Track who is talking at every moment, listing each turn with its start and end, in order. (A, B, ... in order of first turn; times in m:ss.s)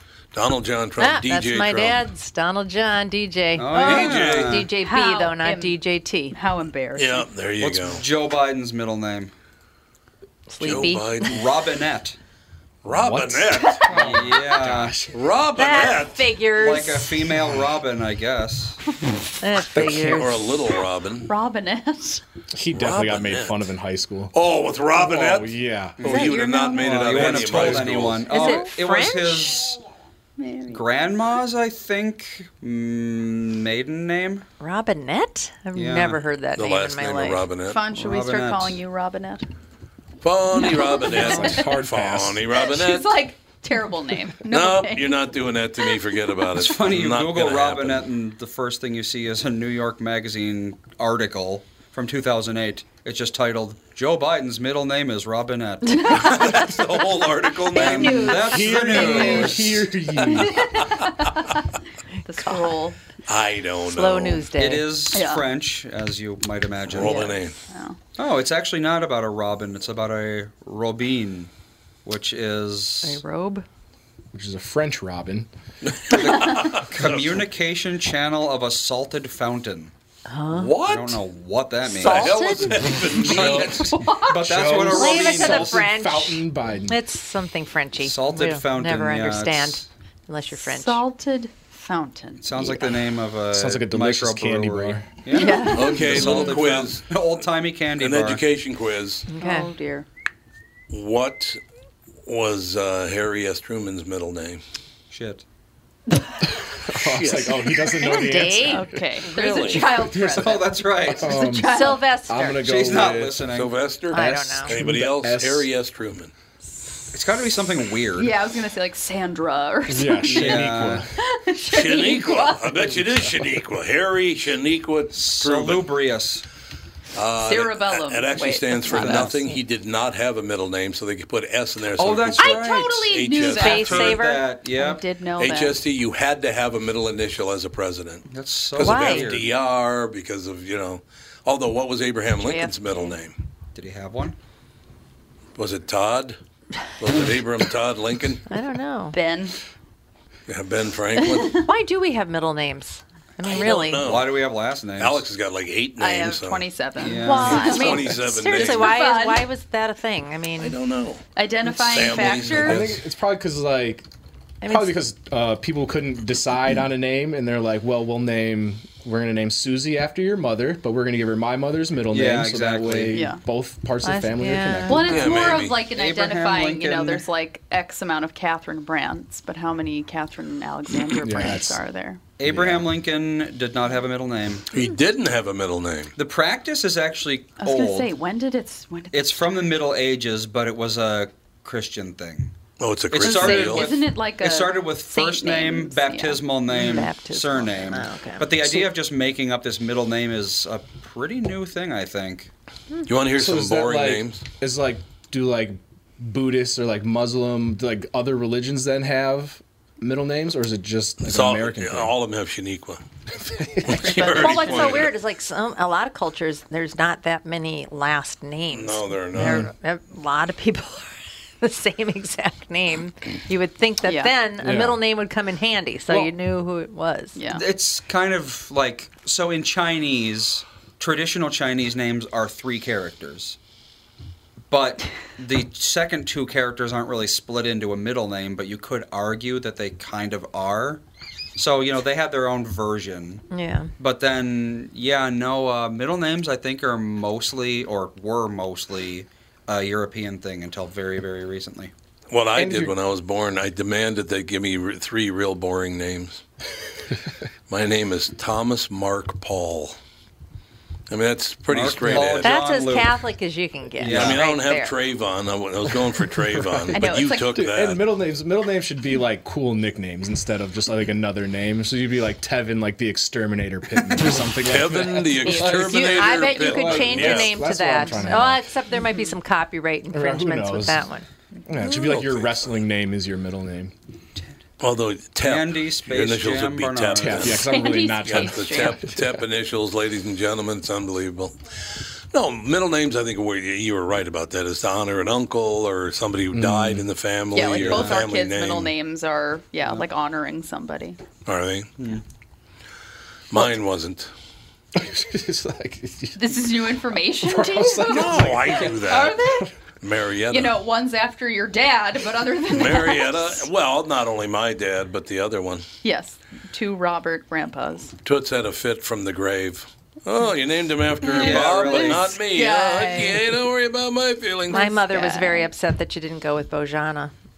0:00.3-0:02.0 A
0:01.0-0:06.4 B
0:03.6-0:04.7 C
0:03.8-0:04.6 A
0:04.8-0:07.3 D
0:06.9-0:08.0 A
0:07.6-0:09.3 C
0:10.5-0:11.3 B
0:10.6-0:11.4 A
0:11.2-0:12.2 C
0:12.8-0:14.2 A
0:12.9-0:15.2 E
0:13.7-0:14.0 D
0:13.9-0:15.0 C
0:15.1-0:16.2 A
0:15.5-0:17.3 B
0:16.5-0:18.8 C
0:19.4-0:20.6 B
0:19.7-0:21.3 A
0:21.2-0:22.2 D
0:22.5-0:24.3 E
0:22.7-0:23.7 A
0:24.3-0:28.4 A
0:24.9-0:26.0 E
0:26.0-0:29.8 C
0:26.0-0:26.6 B
0:26.1-0:27.5 D
0:28.3-0:29.7 B
0:30.4-0:30.8 D
0:30.7-0:34.4 C
0:34.6-0:37.5 B
0:35.7-0:36.2 C
0:36.5-0:37.8 A
0:37.6-0:39.4 D
0:37.9-0:38.8 C
0:40.2-0:43.1 A
0:40.5-0:41.7 D
0:41.1-0:42.4 E
0:42.5-0:45.2 D
0:44.5-0:48.0 A
0:46.6-0:56.6 C
0:56.1-0:58.5 A
0:57.7-0:59.6 D
0:57.7-0:59.9 C
0:57.8-0:58.4 B
0:58.5-1:00.5 E
0:58.9-0:59.5 B
1:00.2-1:01.3 D
1:00.3-1:01.0 A
1:02.2-1:03.0 D
1:02.3-1:02.7 B
1:03.2-1:04.4 A
1:03.9-1:05.0 B
1:04.6-1:07.3 C
1:05.1-1:05.5 D
1:06.9-1:07.5 A
1:07.7-1:08.0 D
1:08.2-1:11.5 C
1:12.0-1:13.2 C
1:13.0-1:13.6 B
1:14.3-1:15.5 E
1:15.8-1:17.4 A
1:16.1-1:19.9 C
1:20.3-1:20.8 B
1:20.5-1:21.2 A
1:20.8-1:22.4 C
1:21.8-1:23.5 B
1:22.0-1:23.9 A
1:23.0-1:25.8 C
1:23.3-1:23.8 E
1:23.4-1:24.5 D
1:24.3-1:27.0 E
1:24.8-1:31.0 B
1:28.0-1:29.9 C
1:30.5-1:32.8 D
1:32.4-1:38.4 C
1:33.5-1:35.1 E
1:35.3-1:36.2 D
1:35.4-1:36.3 B
1:35.7-1:37.0 A
1:38.0-1:39.3 A
1:39.3-1:39.7 B
1:39.3-1:40.0 D
1:40.9-1:41.6 A
1:42.2-1:44.6 A
1:45.1-1:45.4 C
1:46.6-1:49.0 E
1:47.0-1:48.1 A
1:48.0-1:49.8 B
1:48.6-1:52.1 D
1:49.3-1:49.8 A
1:50.1-1:53.5 E
1:50.2-1:51.4 C
1:51.6-1:52.7 B
1:52.6-1:53.7 C
1:53.5-1:56.3 A
1:54.1-1:54.7 B
1:54.1-1:55.7 E
1:57.1-1:58.3 C
1:58.2-2:02.9 D
1:59.9-2:01.1 E
2:00.2-2:01.0 C
2:01.7-2:05.9 A
2:05.1-2:06.4 C
2:07.1-2:14.2 A
2:07.4-2:09.4 D
2:08.9-2:09.5 B
2:12.0-2:15.0 C
2:12.4-2:15.8 D
2:13.4-2:14.4 B
2:15.4-2:23.4 A
2:18.3-2:19.5 C
2:18.8-2:19.3 B
2:22.4-2:23.1 B
2:23.7-2:24.4 C
2:25.6-2:26.4 A
2:27.0-2:28.4 A
2:28.5-2:29.2 B
2:29.1-2:29.6 D
2:30.5-2:31.6 A
2:31.2-2:31.6 D
2:31.5-2:34.2 B
2:33.4-2:34.3 A
2:33.9-2:35.2 C
2:35.0-2:36.7 A
2:36.0-2:39.5 D
2:37.0-2:37.9 C
2:37.2-2:40.8 B
2:37.4-2:39.0 A
2:40.6-2:41.2 A
2:41.4-2:42.8 D
2:41.9-2:43.0 A
2:41.9-2:42.5 B
2:42.5-2:44.0 E
2:44.6-2:44.9 B
2:44.6-2:55.1 E
2:52.1-2:53.2 C
2:53.1-2:53.4 D
2:54.0-2:55.3 B
2:54.9-3:02.2 D
2:55.1-2:55.8 A
2:55.8-2:57.3 C
3:01.2-3:01.8 E
3:02.4-3:04.7 C
3:02.5-3:02.9 E
3:04.7-3:06.1 A
3:06.2-3:08.1 C
3:07.6-3:09.6 D
3:09.1-3:12.5 C
3:12.8-3:13.9 A
3:13.1-3:22.5 C
3:13.2-3:16.8 D
3:16.7-3:18.9 B
3:23.1-3:24.4 A
3:23.3-3:32.1 E
3:31.2-3:33.0 A
3:33.4-3:34.4 E
3:33.8-3:35.1 A
3:34.0-3:47.4 B
3:38.7-3:39.6 A
3:39.3-3:39.7 E
3:44.0-3:44.3 D
3:44.6-3:45.0 E
3:47.3-3:47.6 D
3:47.5-3:53.6 C
3:54.7-4:01.0 C
4:01.6-4:03.4 C
4:03.5-4:03.9 B
4:04.0-4:11.9 C
4:12.3-4:16.4 A
4:12.5-4:13.0 E
4:17.7-4:20.0 A
4:21.1-4:22.6 A
4:21.7-4:23.2 C
4:22.4-4:25.0 B
4:24.0-4:24.4 C
4:24.0-4:28.0 A
4:26.6-4:38.7 E
4:26.9-4:27.6 D
4:34.6-4:37.6 A
4:35.5-4:41.2 B
4:39.0-4:39.3 D
4:40.1-4:41.1 E
4:41.7-4:43.9 E
4:41.9-4:42.6 A
4:44.8-4:47.7 A
4:45.4-4:47.6 C
4:47.2-4:49.2 E
4:47.5-4:49.0 D
4:48.2-4:58.9 A
4:56.5-4:57.1 E
4:57.5-5:01.2 D
4:57.8-4:58.2 C
5:01.4-5:01.9 A
5:03.5-5:04.3 A
5:04.9-5:06.5 E
5:06.4-5:09.7 D
5:07.4-5:09.6 E
5:08.0-5:09.4 A
5:10.0-5:10.8 A
5:10.5-5:13.7 D
5:12.7-5:15.9 A
5:16.0-5:18.1 D
5:18.2-5:25.0 A
5:21.2-5:22.4 C
5:21.3-5:23.4 D
5:24.7-5:27.3 B
5:24.9-5:25.7 D